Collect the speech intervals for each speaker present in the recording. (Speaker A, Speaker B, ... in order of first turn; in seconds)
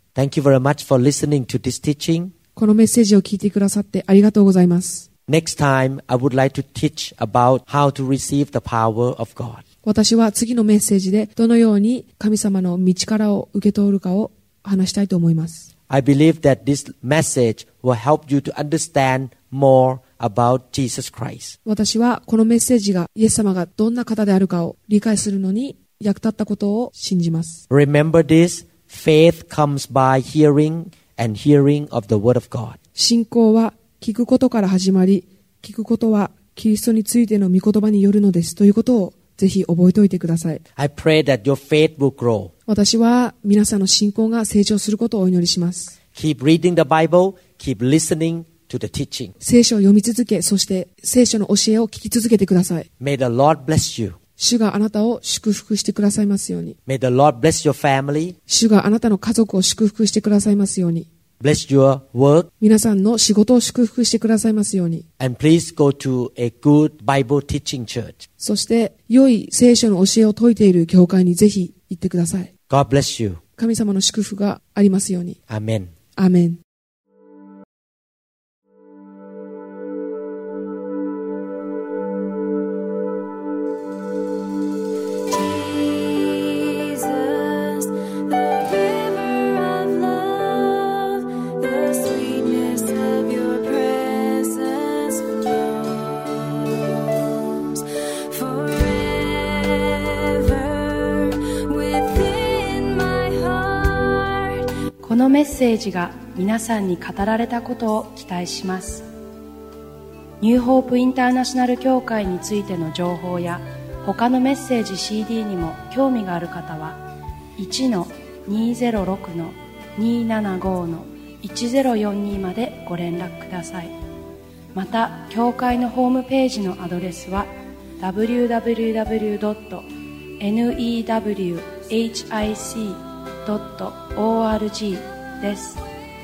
Speaker A: 0.1-2.3, 5.3-9.6, 15.9-21.6, 27.7-32.8, 40.8-42.5, 46.1-49.3, 53.0-54.2, 56.9-58.3, 61.4-62.5, 65.2-68.2, 72.7-73.4, 75.5-75.9
Speaker B: 2.5-5.1, 9.8-15.7, 21.6-27.6, 33.0-40.6, 42.7-45.9, 49.4-52.9, 54.4-56.8, 58.5-61.1, 62.6-65.0, 68.4-72.5, 73.6-75.4, 76.2-76.6
Speaker C: 85.3-95.4, 97.6-104.7
Speaker D: 105.0-109.1, 110.4-117.0, 117.6-123.9, 124.7-129.9, 130.4-135.8